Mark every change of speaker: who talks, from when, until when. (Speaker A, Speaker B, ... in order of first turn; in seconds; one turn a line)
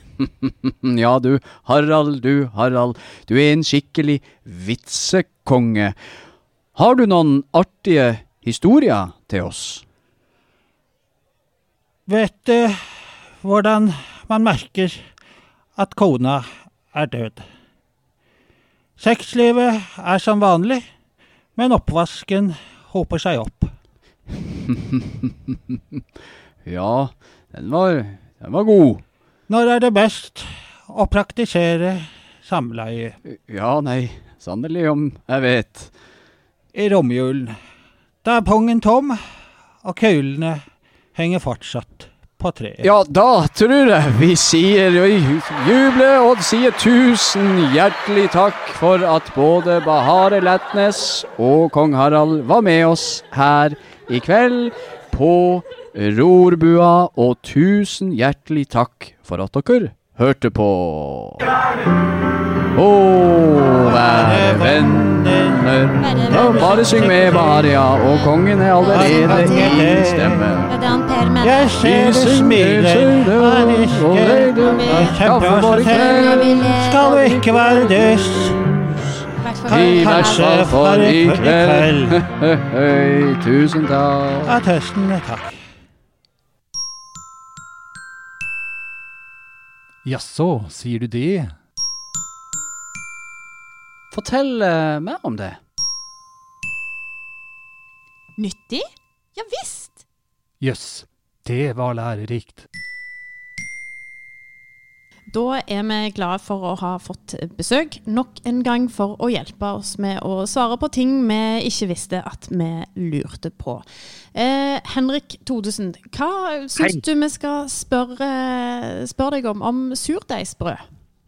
Speaker A: 0.2-6.0
Speaker A: 6.7-9.8
Speaker B: 12.1-12.8
Speaker B: 13.4-15.0
Speaker B: 15.8-17.4
Speaker B: 19.0-20.8
Speaker B: 21.6-23.7
Speaker A: 24.5-26.0
Speaker A: 26.6-29.0
Speaker B: 29.5-33.2
Speaker A: 33.2-35.9
Speaker B: 36.7-37.5
Speaker B: 38.2-39.2
Speaker B: 39.8-40.6
Speaker B: 41.1-42.9
Speaker A: 42.8-61.4
Speaker A: 62.7-70.8
Speaker B: 63.8-67.7
Speaker C: 66.0-67.4
Speaker C: 68.2-69.8
Speaker B: 68.9-70.5
Speaker C: 70.7-71.7
Speaker B: 71.4-78.9
Speaker A: 71.8-79.0
Speaker C: 74.6-75.2
Speaker C: 75.8-77.4
Speaker C: 79.4-80.5
Speaker B: 79.7-82.2
Speaker A: 79.7-84.6
Speaker B: 84.4-85.6
Speaker D: 90.0-91.5
Speaker A: 94.1-95.6
Speaker C: 98.4-100.0
Speaker D: 100.6-102.7
Speaker C: 105.3-120.8